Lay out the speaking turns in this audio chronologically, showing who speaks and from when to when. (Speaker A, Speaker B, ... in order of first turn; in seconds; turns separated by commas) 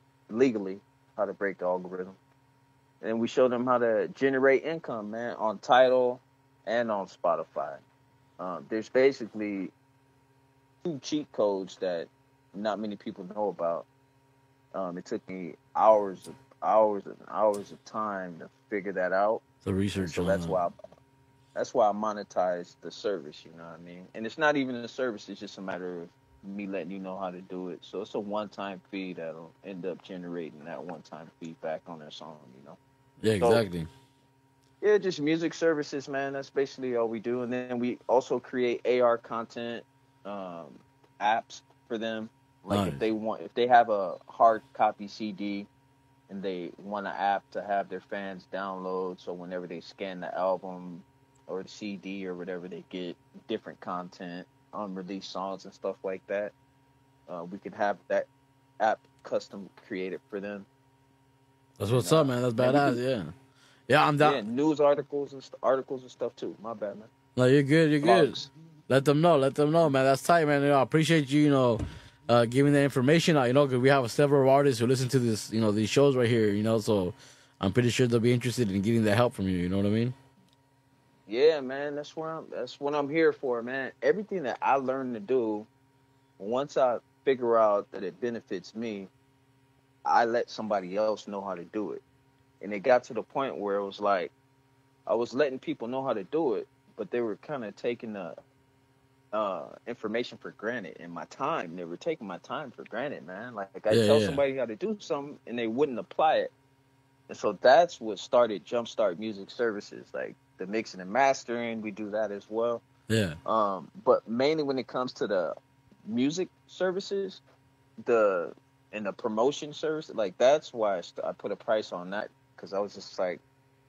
Speaker A: 0.3-2.2, Speaker A: 3.0-7.8, Speaker A: 8.4-9.7, Speaker A: 10.8-13.9, Speaker A: 14.7-19.4, Speaker B: 19.6-20.6, Speaker A: 20.0-20.7, Speaker A: 21.6-32.8, Speaker B: 33.2-33.9, Speaker A: 33.4-33.6, Speaker A: 34.8-45.7, Speaker B: 42.7-43.0, Speaker A: 46.3-56.5, Speaker A: 57.3-58.3, Speaker A: 58.8-60.7, Speaker B: 61.8-63.3, Speaker A: 61.9-63.0, Speaker B: 63.9-64.4, Speaker A: 64.2-67.1, Speaker B: 67.3-68.4, Speaker A: 68.0-68.5, Speaker B: 68.9-80.1, Speaker A: 81.3-85.7, Speaker A: 86.4-89.1, Speaker A: 90.0-92.0, Speaker A: 92.6-94.3, Speaker A: 95.1-98.3, Speaker A: 99.3-106.5, Speaker B: 103.9-104.4, Speaker A: 107.3-112.8, Speaker B: 113.1-113.4, Speaker A: 113.5-115.5, Speaker A: 116.1-117.4, Speaker A: 118.0-123.4